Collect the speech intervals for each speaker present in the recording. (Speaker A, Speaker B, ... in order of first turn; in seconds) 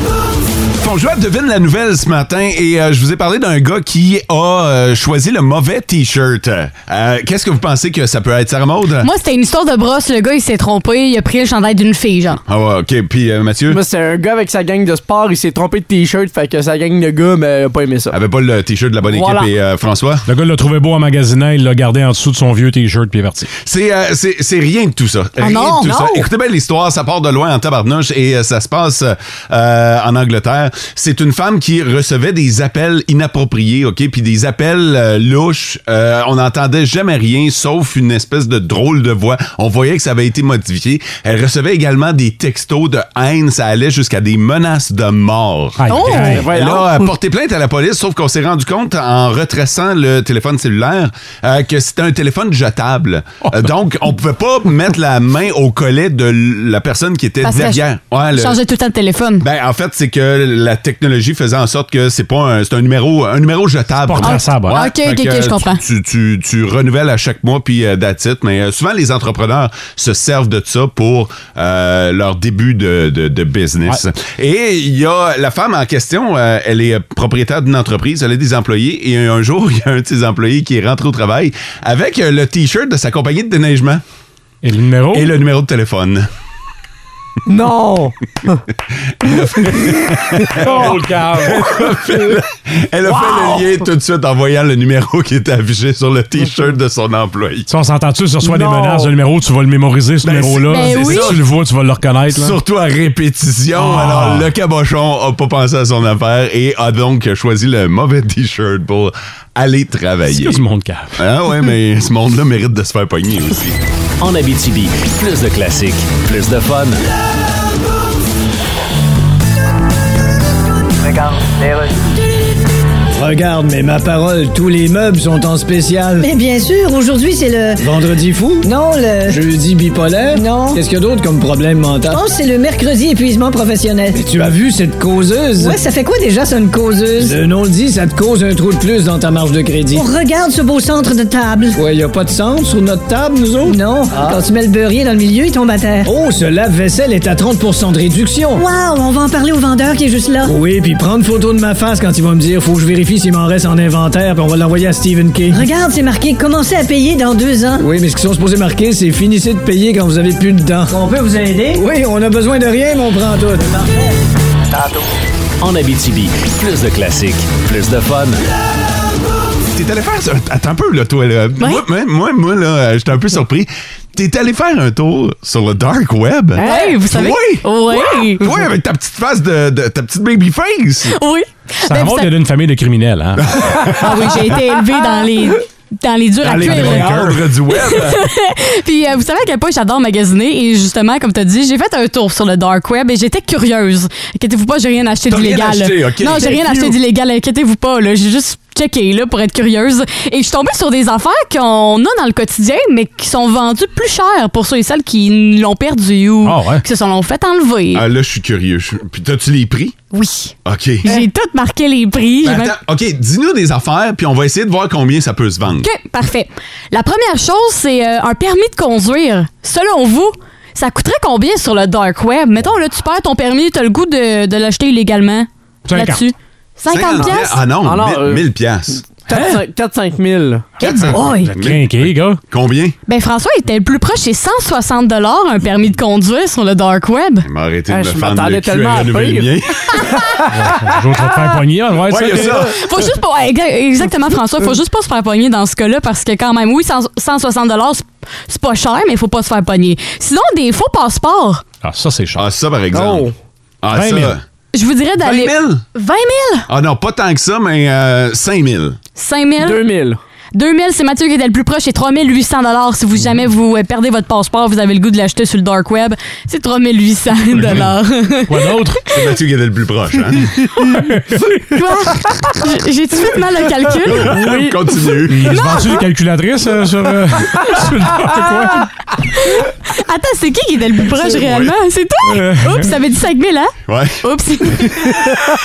Speaker A: 0.8-9.1, 12.5-13.8, 18.1-20.2, 23.6-58.6, 59.4-84.0, 85.1-86.3, 89.1-97.7, 100.2-101.5, 102.3-110.6, 111.2-113.8, 169.7-181.2, 183.5-184.3, 186.4-188.2, 195.3-196.8, 207.9-209.9, 210.6-211.1, 212.4-215.9, 226.9-229.1, 230.8-232.9, 237.4-240.2, 242.1-242.7, 252.3-253.3, 253.8-254.4, 255.2-255.8, 256.7-259.0, 269.1-270.5, 274.1-275.6, 281.4-281.7, 283.9-284.2
Speaker B: 9.0-12.4, 25.4-26.3, 45.9-46.4, 57.4-59.5, 64.2-65.8, 100.7-101.4, 171.6-171.8, 176.6-178.5, 181.1-182.3, 183.9-208.0, 210.1-212.8, 215.8-227.6, 230.8-231.5, 233.1-237.5, 242.7-251.6, 254.7-256.7, 259.1-259.8, 260.5-268.7, 271.7-274.4, 275.5-275.9, 279.4-285.4
Speaker C: 13.7-18.2, 19.1-19.5, 46.3-47.1, 87.5-88.6, 93.0-93.7, 98.4-99.1, 176.6-177.0, 227.2-228.5, 229.2-230.7, 237.9-239.5, 252.9-253.3, 259.6-260.2, 274.3-274.8
Speaker D: 20.3-23.5, 45.8-46.5, 64.0-64.8, 84.6-85.3, 90.5-91.8, 97.7-102.6, 103.7-104.5, 110.2-111.2, 181.8-183.9, 186.5-187.3, 206.4-206.8, 225.8-226.2, 229.3-229.6, 230.9-232.4, 240.5-242.7, 251.8-252.5, 253.9-254.4, 268.5-269.0, 271.1-271.5, 275.3-278.9, 282.3-282.9
Speaker E: 114.2-117.0, 165.6-168.4
Speaker F: 121.0-121.9, 123.2-126.3, 127.8-128.7, 129.3-132.2, 134.1-135.8, 137.2-140.1, 141.7-144.4, 146.0-148.6, 150.4-155.6, 157.8-161.2, 161.7-164.0
Speaker G: 126.2-127.8, 128.6-129.4, 130.3-130.8, 132.1-134.2, 135.6-137.4, 139.9-141.8, 143.6-146.1, 148.5-150.6, 155.5-157.9, 160.9-161.8